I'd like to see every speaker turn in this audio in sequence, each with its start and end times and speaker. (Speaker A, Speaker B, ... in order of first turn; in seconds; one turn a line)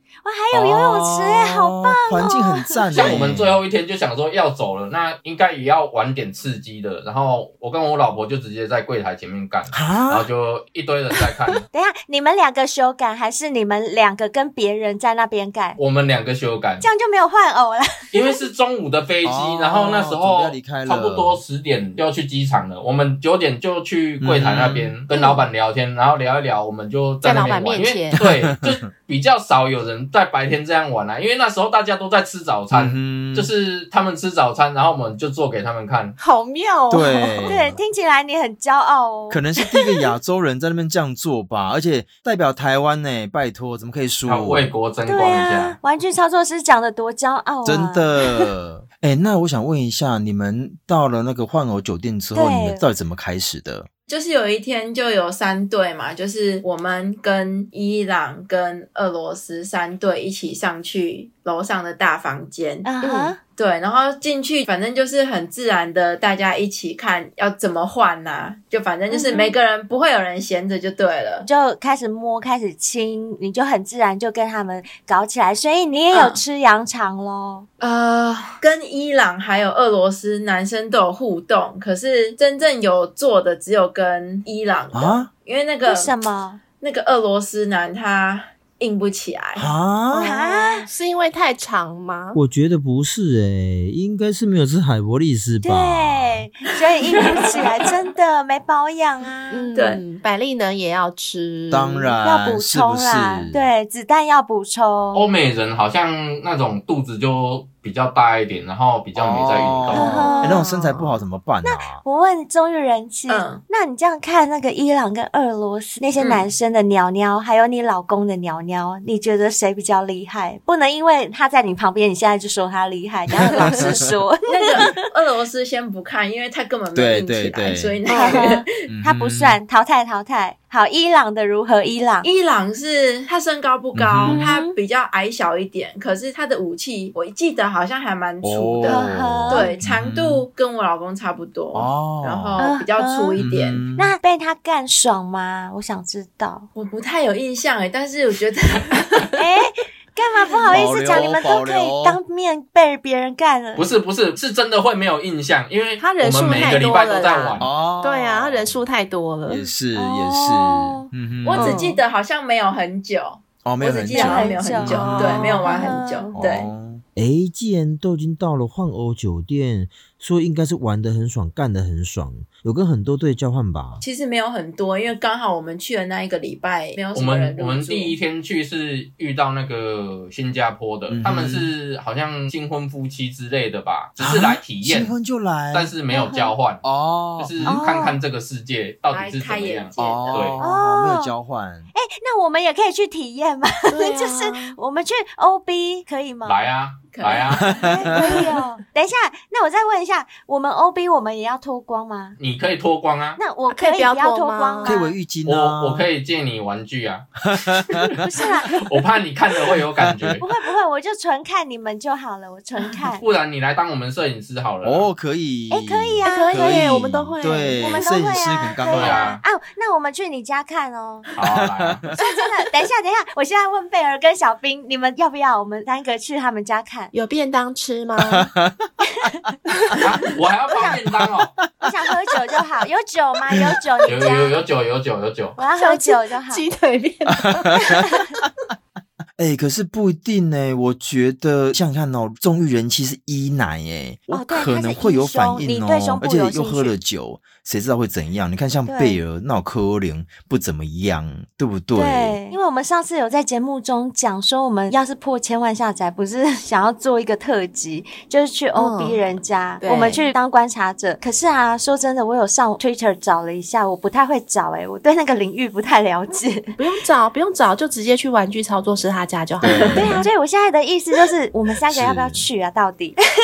Speaker A: 0.2-3.1
Speaker B: 0.5-3.6
Speaker C: 2.9-11.6
Speaker B: 9.7-10.3
Speaker A: 11.7-15.8
Speaker C: 15.8-16.9
Speaker A: 16.8-18.4
Speaker C: 18.1-36.1
Speaker B: 19.2-21.4
Speaker B: 24.2-24.9
Speaker A: 25.1-25.4
Speaker D: 27.2-28.2
Speaker B: 28.1-28.8
Speaker B: 32.7-33.5
Speaker D: 36.2-37.6
Speaker B: 36.9-37.8
Speaker A: 37.4-39.5
Speaker B: 39.3-44.7
Speaker C: 44.2-45.8
Speaker A: 45.0-48.1
Speaker B: 47.6-53.9
Speaker A: 52.3-52.9
Speaker E: 54.1-62.9
Speaker A: 62.8-63.4
Speaker D: 63.0-63.3
Speaker E: 63.5-71.5
Speaker A: 69.1-69.5
Speaker A: 71.5-77.7
Speaker E: 76.1-76.4
Speaker E: 77.8-86.1
Speaker B: 84.9-85.3
Speaker A: 85.8-86.6
Speaker E: 86.8-89.7
Speaker B: 89.5-90.3
Speaker A: 90.1-90.9
Speaker D: 90.2-92.4
Speaker B: 92.3-96.5
Speaker A: 95.6-99.7
Speaker D: 99.5-102.1
Speaker E: 99.8-100.0
Speaker B: 101.7-103.7
Speaker A: 102.2-105.3
Speaker C: 105.1-110.2
Speaker B: 109.1-112.0
Speaker A: 109.9-111.1
Speaker D: 110.0-110.7
Speaker A: 111.6-124.9
Speaker E: 113.3-113.6
Speaker E: 116.2-116.4
Speaker B: 123.4-124.1
Speaker E: 124.5-128.6
Speaker B: 126.9-128.0
Speaker A: 128.1-132.3
Speaker B: 128.8-129.6
Speaker E: 132.2-143.8
Speaker B: 133.9-134.4
Speaker A: 134.2-134.8
Speaker B: 138.4-140.4
Speaker A: 138.8-139.7
Speaker B: 141.7-142.6
Speaker A: 142.6-146.7
Speaker B: 143.4-144.1
Speaker E: 146.7-149.4
Speaker A: 149.3-153.9
Speaker B: 150.7-152.2
Speaker C: 153.8-157.7
Speaker D: 156.0-159.7
Speaker B: 157.6-158.8
Speaker B: 159.5-161.8
Speaker A: 159.9-161.1
Speaker E: 161.4-166.7
Speaker D: 161.5-162.0
Speaker B: 163.6-165.6
Speaker A: 164.1-166.3
Speaker D: 164.8-165.9
Speaker B: 166.3-174.0
Speaker E: 174.0-178.2
Speaker C: 177.1-185.1
Speaker B: 181.1-181.7
Speaker B: 184.2-185.9
Speaker C: 185.7-186.8
Speaker A: 186.1-186.5
Speaker B: 186.8-187.8
Speaker C: 187.4-190.6
Speaker A: 187.6-188.2
Speaker E: 189.1-190.5
Speaker B: 190.0-191.9
Speaker A: 190.6-191.3
Speaker A: 191.9-196.6
Speaker D: 193.9-194.8
Speaker C: 196.4-197.7
Speaker E: 197.1-198.0
Speaker B: 197.6-198.4
Speaker A: 197.8-202.4
Speaker C: 202.4-203.4
Speaker A: 203.4-205.1
Speaker D: 203.7-205.1
Speaker B: 204.8-206.1
Speaker C: 205.4-207.3
Speaker B: 207.5-208.1
Speaker A: 208.2-208.7
Speaker C: 208.7-210.4
Speaker B: 209.7-210.4
Speaker A: 210.4-213.2
Speaker C: 213.2-215.1
Speaker B: 214.8-219.3
Speaker A: 215.7-216.7
Speaker D: 216.2-218.4
Speaker A: 217.8-221.3
Speaker C: 218.9-219.4
Speaker C: 221.3-222.1
Speaker B: 221.4-222.2
Speaker A: 222.2-227.1
Speaker D: 227.1-228.5
Speaker B: 228.2-228.8
Speaker C: 230.0-231.5
Speaker A: 230.7-231.0
Speaker B: 230.8-231.3
Speaker A: 231.8-234.6
Speaker C: 234.1-235.6
Speaker A: 235.6-236.6
Speaker D: 235.8-238.1
Speaker B: 237.5-237.9
Speaker A: 237.9-238.2
Speaker B: 239.4-252.4
Speaker A: 244.3-246.9
Speaker A: 248.9-249.2
Speaker A: 251.9-266.8
Speaker D: 258.7-259.2
Speaker D: 259.8-260.3
Speaker D: 266.8-270.2
Speaker B: 269.6-270.2
Speaker A: 269.8-273.2
Speaker B: 271.9-272.5